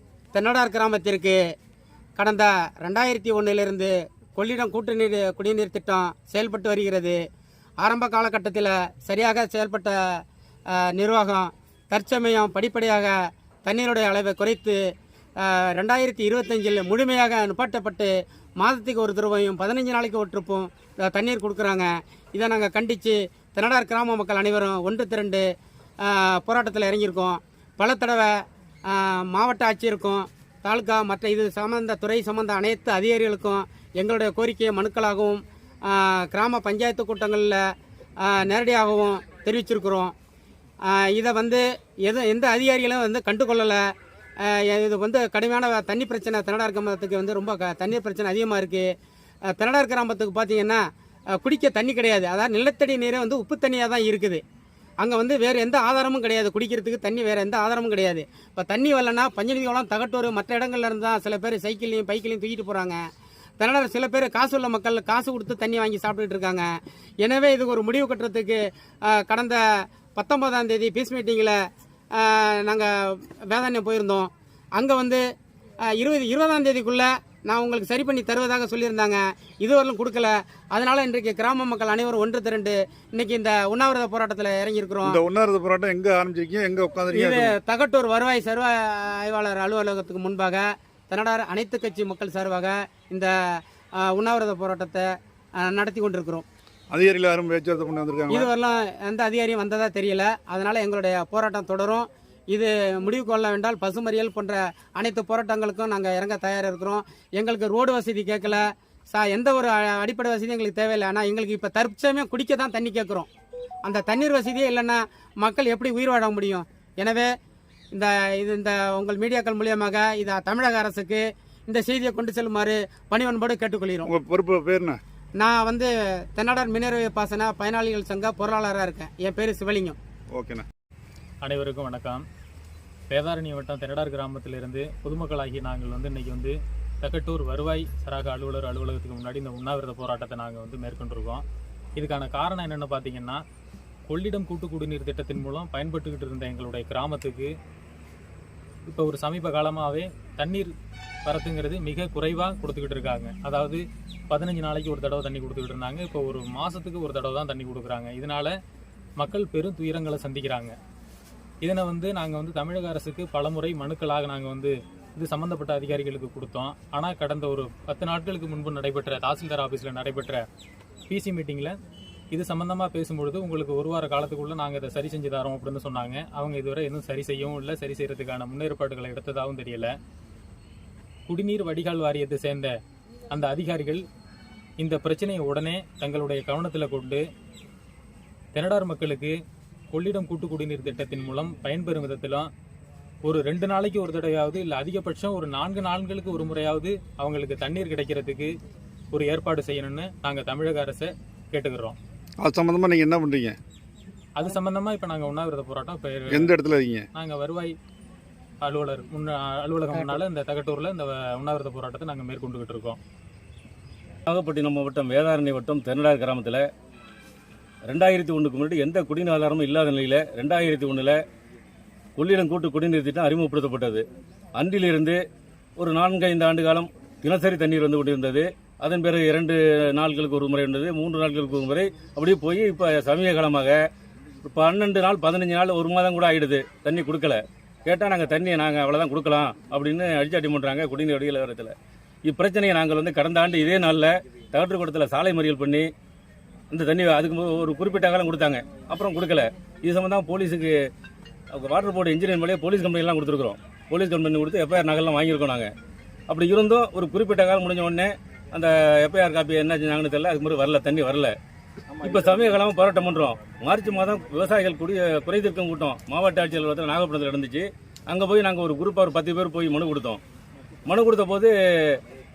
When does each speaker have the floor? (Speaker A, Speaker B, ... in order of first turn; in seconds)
Speaker A: 0.3-1.4, 2.2-7.2, 7.8-10.2, 10.7-14.8, 15.4-25.4, 26.0-37.6, 38.2-40.1, 40.9-43.9, 44.4-48.9, 49.5-50.8, 51.3-54.4, 55.0-63.0, 63.6-66.7, 67.2-71.6, 72.1-75.2, 75.9-85.2, 87.1-95.0, 95.6-96.5, 98.3-113.3, 113.8-117.3, 117.9-124.1, 125.4-130.0
Speaker B: 85.0-87.5, 96.9-98.5, 124.0-125.0, 130.3-130.7, 202.4-203.6, 206.3-207.1
Speaker C: 131.5-132.2, 133.1-136.5, 137.0-141.4, 142.0-143.4, 144.1-147.5, 148.9-150.7, 151.2-153.8, 154.3-158.5, 159.2-160.7, 161.6-170.4, 171.1-171.7, 172.3-179.9, 181.3-182.7, 183.3-184.0, 184.8-187.2, 188.6-189.3, 189.9-192.5, 193.2-198.5, 199.1-201.9, 204.8-206.2, 207.2-207.7, 208.7-212.9
Speaker D: 214.3-216.6, 217.9-221.2, 222.2-224.0, 224.6-225.2, 225.8-233.8, 234.5-241.7, 242.2-245.9, 246.7-250.7, 251.6-255.7, 256.3-261.3, 262.0-270.2, 270.9-272.0